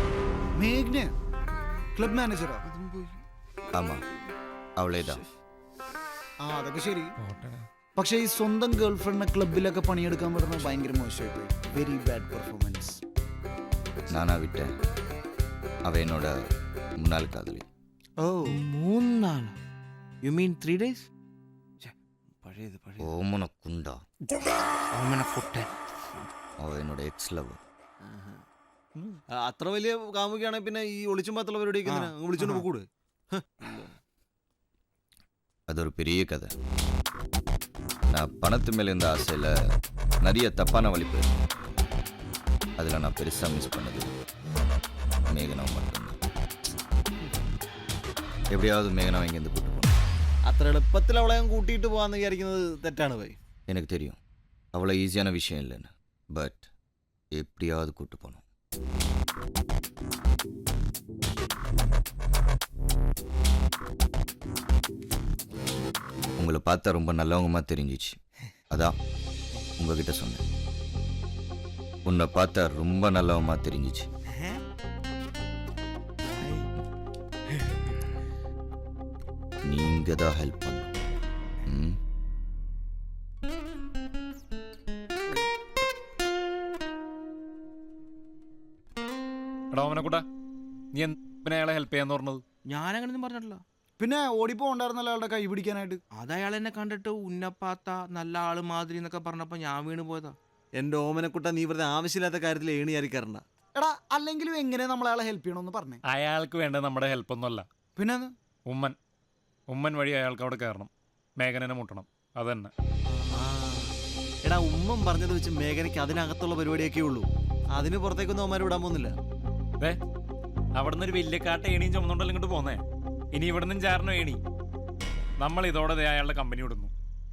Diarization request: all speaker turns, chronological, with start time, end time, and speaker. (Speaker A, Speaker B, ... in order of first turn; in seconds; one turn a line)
Speaker A: 0.5-1.1
Speaker A: 1.9-2.6
Speaker B: 2.7-3.1
Speaker C: 3.7-4.0
Speaker C: 4.8-5.2
Speaker A: 6.4-7.2
Speaker D: 7.2-7.7
Speaker A: 8.0-13.0
Speaker C: 14.1-14.7
Speaker C: 15.8-16.4
Speaker C: 17.0-17.6
Speaker E: 18.3-19.6
Speaker E: 20.2-21.1
Speaker B: 22.4-23.1
Speaker C: 23.0-24.0
Speaker E: 24.9-25.7
Speaker C: 26.6-27.6
Speaker B: 28.1-28.4
Speaker B: 29.3-33.9
Speaker C: 35.7-36.5
Speaker C: 38.1-39.5
Speaker C: 40.2-41.4
Speaker C: 42.8-44.1
Speaker C: 45.3-46.2
Speaker C: 48.5-49.9
Speaker B: 50.5-53.4
Speaker C: 53.7-54.2
Speaker C: 54.7-56.6
Speaker C: 57.3-58.4
Speaker C: 66.4-68.2
Speaker C: 69.8-70.4
Speaker C: 72.0-74.1
Speaker E: 74.3-74.6
Speaker E: 76.3-76.7
Speaker E: 77.5-77.9
Speaker C: 79.6-80.9
Speaker C: 81.7-81.9
Speaker D: 89.7-90.2
Speaker D: 90.9-92.4
Speaker E: 92.7-93.6
Speaker A: 94.0-96.0
Speaker E: 96.1-100.4
Speaker B: 100.8-103.4
Speaker A: 103.8-106.0
Speaker D: 106.0-107.7
Speaker A: 108.0-108.3
Speaker D: 108.7-109.0
Speaker D: 109.7-112.7
Speaker B: 113.3-113.9
Speaker B: 114.4-119.2
Speaker D: 120.8-122.8
Speaker D: 123.3-124.4
Speaker D: 125.4-126.9